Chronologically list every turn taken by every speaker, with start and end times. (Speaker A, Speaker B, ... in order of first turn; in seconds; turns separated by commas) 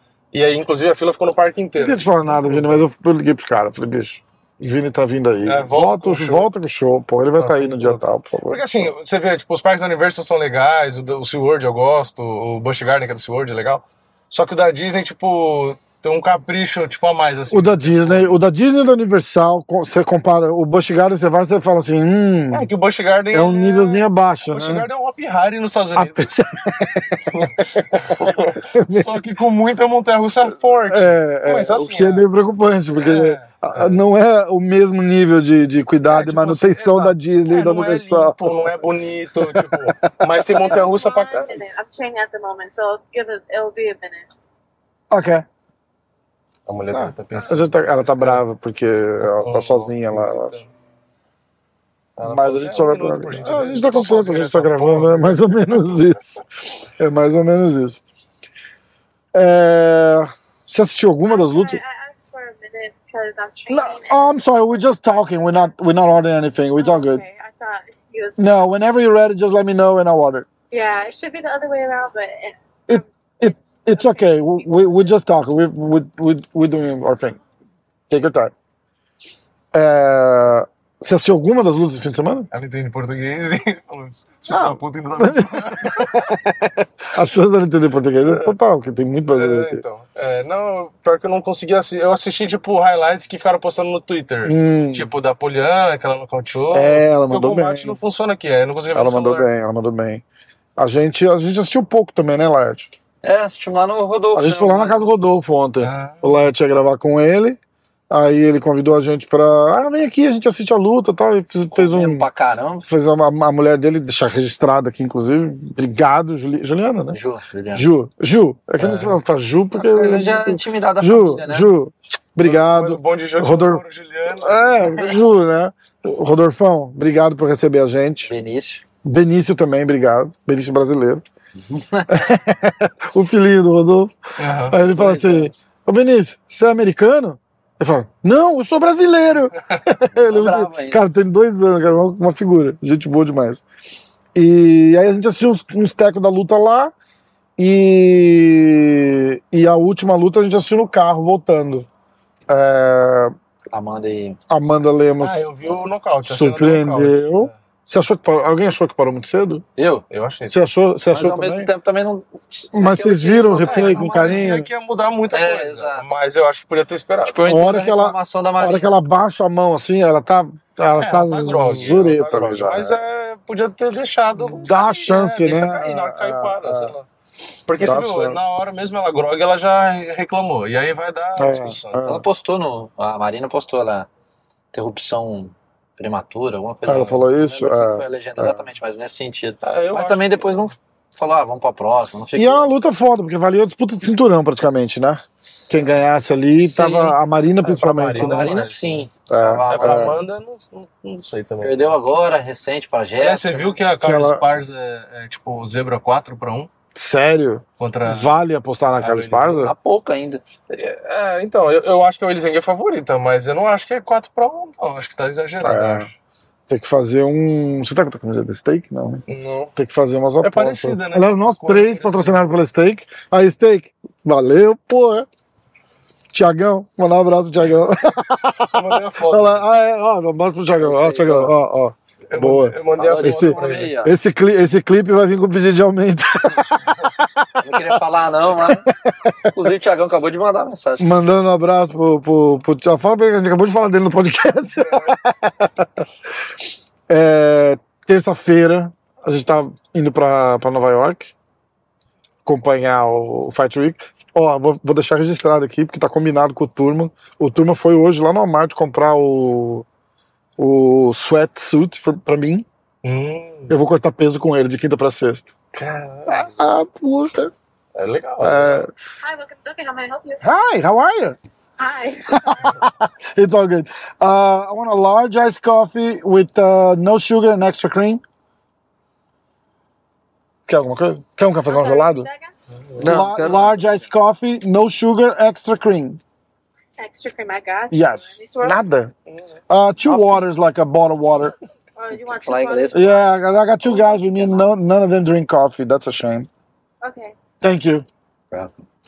Speaker A: 0.3-2.8, Speaker B: 1.8-8.6, Speaker A: 5.4-6.5, Speaker A: 7.4-18.4, Speaker B: 17.5-22.7, Speaker A: 22.5-26.4, Speaker B: 23.3-24.9, Speaker B: 25.9-27.2, Speaker A: 27.3-32.2, Speaker B: 28.1-29.2, Speaker B: 30.9-38.4, Speaker A: 33.0-34.0, Speaker A: 36.1-41.6, Speaker B: 39.4-40.5, Speaker C: 40.5-44.3, Speaker B: 45.1-45.5, Speaker A: 46.7-48.4, Speaker B: 46.9-50.5, Speaker A: 49.2-50.7, Speaker A: 52.2-56.1, Speaker B: 52.2-56.4, Speaker B: 57.0-58.0, Speaker B: 59.3-61.8, Speaker C: 61.2-64.3, Speaker B: 63.7-67.2, Speaker C: 66.8-68.7, Speaker B: 68.4-70.5, Speaker C: 70.7-74.3, Speaker B: 72.9-77.4, Speaker B: 78.1-78.5, Speaker B: 79.7-82.5, Speaker A: 82.5-86.3, Speaker B: 84.5-89.8, Speaker A: 88.3-88.5, Speaker A: 89.3-99.5, Speaker B: 94.4-95.1, Speaker B: 96.7-98.0, Speaker B: 98.9-100.2, Speaker B: 100.8-102.9, Speaker D: 103.2-105.2, Speaker B: 104.3-107.6, Speaker A: 105.8-106.4, Speaker B: 108.1-112.2, Speaker D: 111.7-112.9, Speaker B: 112.9-117.2, Speaker D: 117.1-117.9, Speaker B: 117.7-123.8, Speaker A: 118.8-119.2, Speaker D: 119.7-121.7, Speaker A: 122.4-125.2, Speaker B: 124.4-128.3, Speaker D: 128.2-128.8, Speaker B: 129.0-131.2, Speaker D: 131.6-132.3, Speaker B: 132.1-134.2, Speaker A: 134.4-134.8, Speaker B: 134.7-143.6, Speaker D: 134.8-135.6, Speaker D: 140.1-141.0, Speaker B: 144.3-146.9, Speaker B: 147.6-151.9, Speaker B: 152.5-153.3, Speaker D: 153.7-154.4, Speaker B: 154.5-155.5, Speaker A: 155.2-157.5, Speaker B: 156.2-159.6, Speaker D: 159.8-160.0, Speaker A: 160.1-160.6, Speaker B: 160.5-161.7, Speaker D: 161.1-164.5, Speaker B: 162.7-164.7, Speaker A: 163.5-167.4, Speaker D: 165.3-166.1, Speaker D: 167.2-169.0, Speaker B: 167.4-172.9, Speaker A: 171.0-177.1, Speaker B: 174.4-176.9, Speaker A: 177.7-182.0, Speaker B: 177.8-178.4, Speaker B: 181.4-182.2, Speaker D: 182.0-184.1, Speaker D: 184.7-192.7, Speaker B: 186.9-188.6, Speaker A: 189.6-190.7, Speaker B: 192.3-198.6, Speaker A: 196.6-199.1, Speaker D: 198.1-200.2, Speaker B: 199.3-200.2, Speaker A: 199.6-201.9, Speaker D: 201.6-203.8, Speaker A: 203.2-206.7, Speaker B: 204.0-204.4, Speaker B: 206.9-209.7, Speaker A: 207.8-208.4, Speaker A: 209.0-209.7, Speaker D: 209.6-210.4, Speaker A: 210.7-216.1, Speaker B: 215.6-216.1, Speaker B: 216.7-219.2, Speaker A: 219.3-219.7, Speaker B: 219.8-225.3, Speaker A: 220.4-222.5, Speaker B: 226.3-238.0, Speaker A: 228.7-229.7, Speaker D: 230.8-231.5, Speaker A: 232.3-233.9, Speaker D: 233.0-234.1, Speaker D: 237.6-238.9, Speaker B: 238.6-239.5, Speaker D: 239.5-241.1, Speaker B: 241.0-246.0, Speaker B: 247.1-251.3, Speaker B: 252.4-259.9, Speaker B: 260.6-262.6, Speaker A: 263.0-263.7, Speaker B: 263.7-265.5, Speaker A: 265.7-266.5, Speaker B: 266.3-267.5, Speaker A: 267.9-268.9, Speaker B: 268.4-268.9, Speaker C: 269.2-270.4, Speaker B: 270.4-271.4, Speaker C: 271.8-272.8, Speaker B: 272.3-278.2, Speaker B: 280.7-282.3, Speaker C: 281.6-282.5, Speaker A: 282.7-283.4, Speaker D: 283.0-283.8, Speaker B: 283.0-286.2, Speaker C: 287.0-288.8, Speaker B: 287.9-289.1, Speaker A: 289.3-289.6, Speaker B: 289.7-291.5, Speaker C: 291.9-293.3, Speaker D: 292.4-293.3, Speaker B: 292.9-296.5, Speaker D: 293.8-294.7, Speaker C: 297.0-297.3, Speaker B: 297.6-298.0